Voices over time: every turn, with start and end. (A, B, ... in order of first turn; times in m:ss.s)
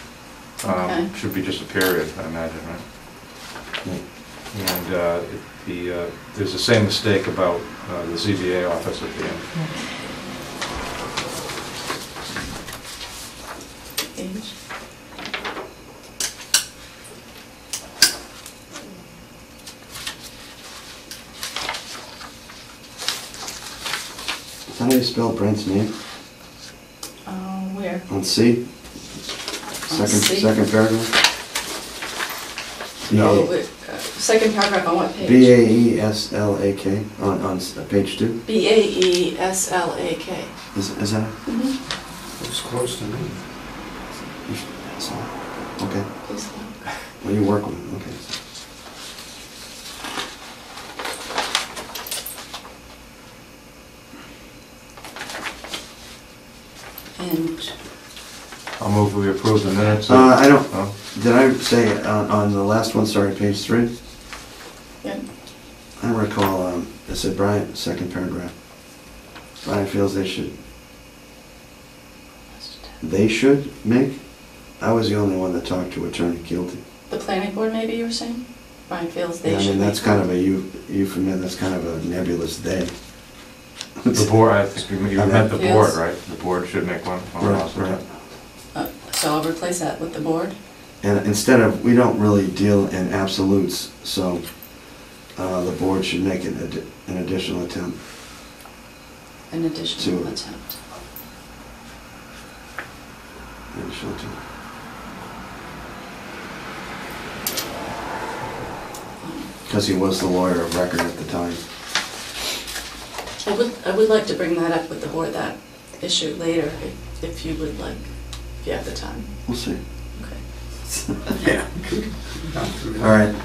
0:00.6-0:02.8 A
0:00.6-0:01.1 B
0:04.5-0:09.5 A
0:14.1-0:14.5 B
0:24.7-0:25.9 C
0:27.2-0:28.1 B
0:28.1-0:28.6 C
0:29.9-0:30.5 B
0:29.9-0:31.1 C
0:33.1-0:33.5 C
0:33.1-0:35.5 B
0:35.2-0:38.4 C
0:38.5-0:40.5 B
0:40.7-0:41.3 C
0:41.5-0:41.7 B
0:42.4-0:43.4 D
0:44.5-0:46.1 C
0:46.3-0:46.9 B
0:47.2-0:48.3 C
0:57.2-0:57.7 B
0:58.8-1:00.9 A
1:00.1-1:03.9 C
1:06.0-1:08.5 C
1:09.6-1:10.6 C
1:13.0-1:16.8 C
1:17.1-1:20.2 B
1:19.4-1:22.9 C
1:24.0-1:24.3 C
1:24.1-1:28.0 A
1:25.2-1:25.5 C
1:25.5-1:26.0 B
1:27.4-1:28.0 C
1:28.7-1:30.6 B
1:31.0-1:38.0 C
1:39.5-1:40.8 B
1:40.0-1:40.3 C
1:43.7-1:44.4 C
1:49.2-1:49.5 B
1:49.7-1:51.6 C
1:53.4-1:59.3 B
1:59.5-1:59.8 C
2:00.2-2:00.4 B
2:00.9-2:01.7 C
2:01.7-2:03.3 D
2:03.0-2:03.4 C